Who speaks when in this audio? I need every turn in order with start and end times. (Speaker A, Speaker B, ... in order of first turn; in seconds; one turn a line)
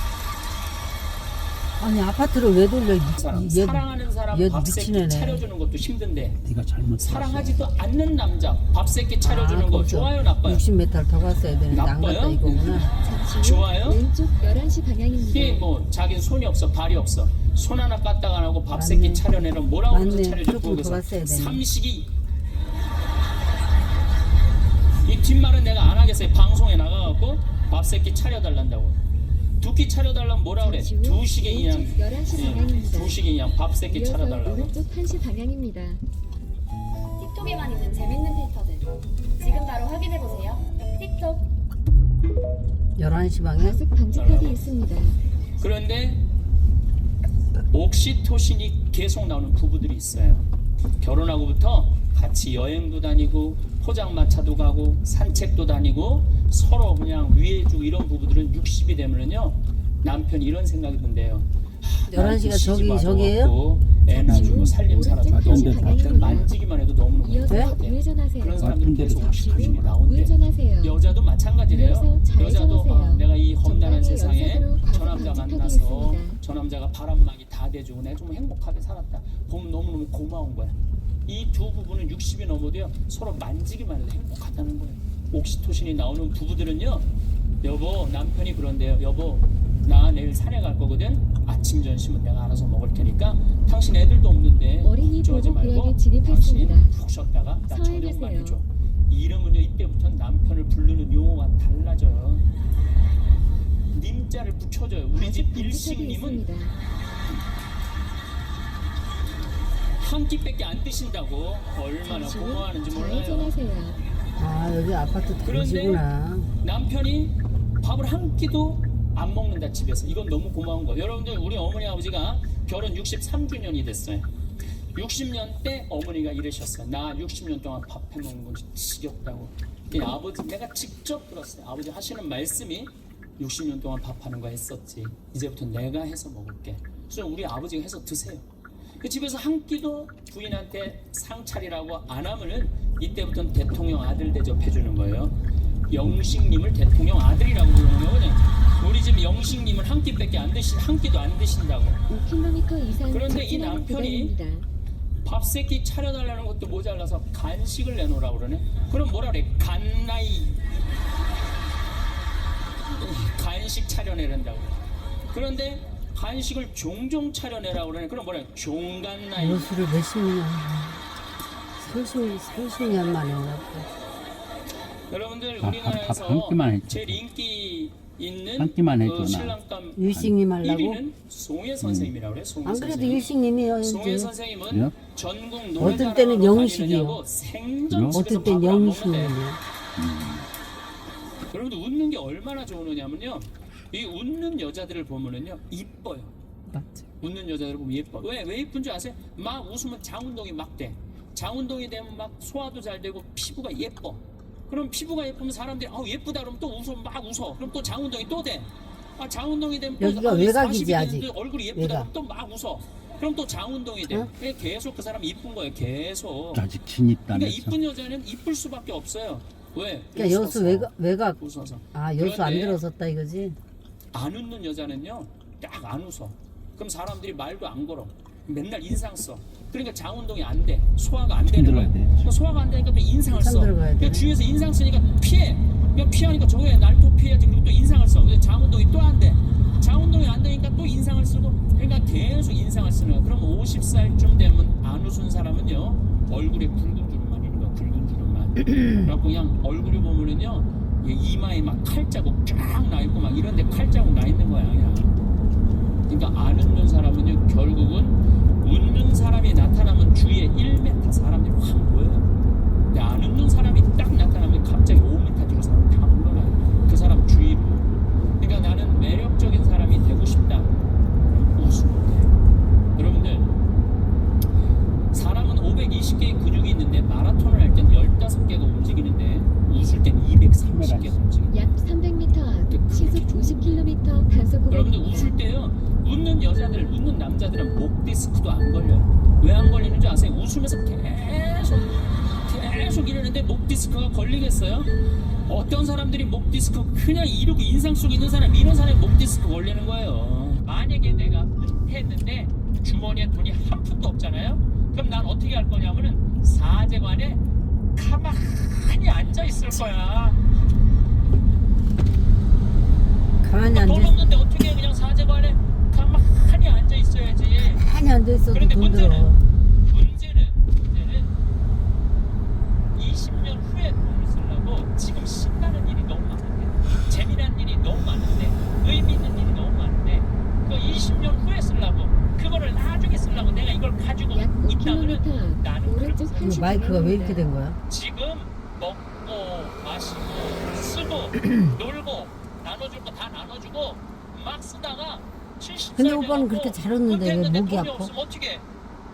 Speaker A: 1.8-5.4
Speaker B: 3.1-6.4
Speaker C: 6.4-7.6
Speaker B: 7.0-10.6
Speaker A: 9.2-12.9
Speaker B: 11.7-14.0
Speaker D: 13.0-15.7
Speaker B: 15.3-22.1
Speaker A: 18.7-19.2
Speaker A: 19.9-21.6
Speaker B: 25.1-29.0
Speaker B: 29.6-34.7
Speaker D: 30.6-33.2
Speaker D: 33.9-36.0
Speaker E: 37.2-41.5
Speaker A: 43.0-43.8
Speaker D: 43.6-45.2
Speaker B: 44.1-44.6
Speaker B: 45.6-46.2
Speaker B: 47.7-50.5
Speaker B: 51.0-87.1
Speaker A: 62.1-63.5
Speaker D: 64.1-66.5
Speaker C: 64.2-66.5
Speaker D: 67.2-71.0
Speaker C: 68.6-70.0
Speaker D: 71.7-76.4
Speaker B: 87.6-102.5
Speaker D: 94.8-97.0
Speaker D: 97.7-98.6
Speaker B: 103.9-106.5
Speaker D: 105.1-106.8
Speaker B: 110.0-113.5
Speaker D: 112.0-114.0
Speaker A: 114.4-116.5
Speaker B: 115.4-116.0
Speaker B: 116.6-124.3
Speaker B: 125.0-138.4
Speaker B: 139.0-145.4
Speaker B: 145.9-152.0
Speaker D: 152.1-154.7
Speaker B: 153.1-154.3
Speaker B: 155.2-160.7
Speaker B: 162.9-169.7
Speaker A: 169.4-171.0
Speaker A: 171.8-173.9
Speaker B: 175.1-180.0
Speaker C: 175.6-177.2
Speaker C: 178.6-180.4
Speaker A: 180.0-181.0
Speaker B: 180.6-183.3
Speaker C: 181.8-182.1
Speaker A: 182.7-184.3
Speaker B: 183.8-189.4
Speaker C: 184.7-184.9
Speaker A: 185.8-187.2
Speaker C: 187.9-188.2
Speaker A: 188.1-189.6
Speaker C: 190.0-190.5
Speaker B: 191.5-196.3
Speaker B: 197.2-216.7
Speaker A: 210.0-212.1
Speaker C: 216.5-217.8
Speaker B: 217.3-222.8
Speaker A: 220.2-221.4
Speaker A: 221.9-223.6
Speaker B: 224.1-255.1
Speaker C: 231.4-232.3
Speaker A: 233.3-234.3
Speaker B: 256.1-262.3
Speaker B: 262.9-270.7
Speaker B: 271.3-272.3
Speaker B: 273.0-273.5
Speaker B: 275.1-281.6
Speaker C: 280.7-281.2
Speaker D: 281.5-285.4
Speaker B: 282.7-283.8
Speaker B: 284.7-291.9
Speaker B: 292.4-294.9
Speaker B: 295.5-307.4
Speaker B: 307.9-310.4
Speaker A: 313.4-314.2
Speaker B: 313.7-317.8
Speaker A: 317.6-319.4
Speaker B: 318.5-319.3
Speaker B: 319.9-321.3
Speaker B: 322.9-337.2
Speaker D: 334.3-337.5
Speaker A: 336.4-337.8
Speaker B: 337.9-348.7
Speaker A: 346.0-348.1